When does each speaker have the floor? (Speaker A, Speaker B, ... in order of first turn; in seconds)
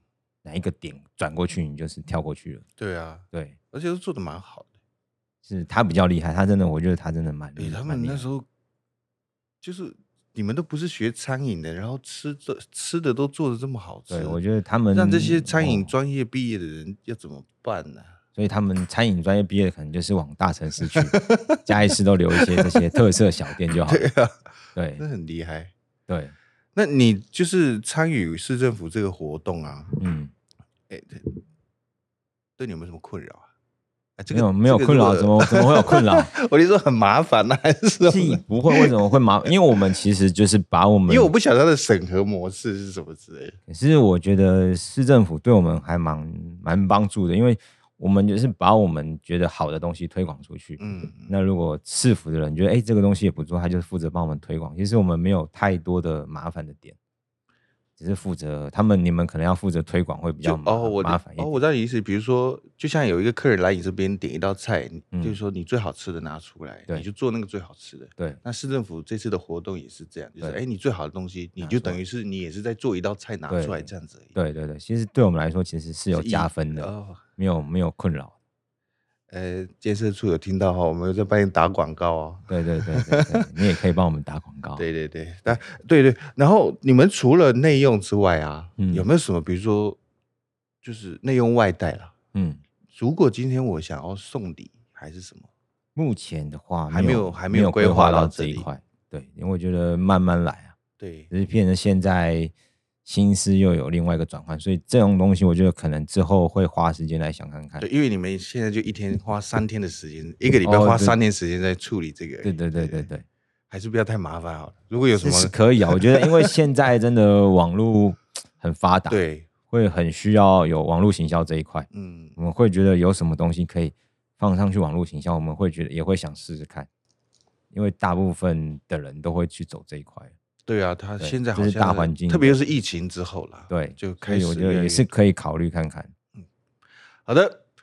Speaker A: 0.4-2.6, 3.3-3.6, 5.4-8.3, 14.1-15.9, 18.3-24.1, 24.7-25.0, 26.1-26.3, 30.0-30.3, 34.3-36.3, 38.1-41.3, 43.7-57.0, 58.0-61.5, 65.1-65.4, 71.6-72.0, 73.5-78.3, 82.5-84.8, 88.8-89.1, 92.3-92.6, 96.0-100.7, 101.3-102.5, 103.0-107.8, 110.6-111.2, 112.4-113.2, 115.2-126.9, 127.7-130.3, 131.2-132.6, 133.7-136.1
Speaker B: 2.8-4.7, 7.6-8.4, 9.6-14.4, 14.9-18.1, 20.8-21.6, 22.4-22.8, 23.9-24.4, 25.0-25.7, 26.7-29.9, 30.9-31.3, 32.6-33.5, 34.2-38.9, 41.1-43.6, 50.8-51.3, 60.4-74.3, 76.1-77.2, 79.3-83.5, 84.8-90.0, 90.8-92.1, 92.9-95.5, 96.9-98.7, 101.0-101.3, 107.8-113.1, 113.7-116.5, 119.1-119.5, 121.9-122.3, 130.7-135.1, 137.2-137.6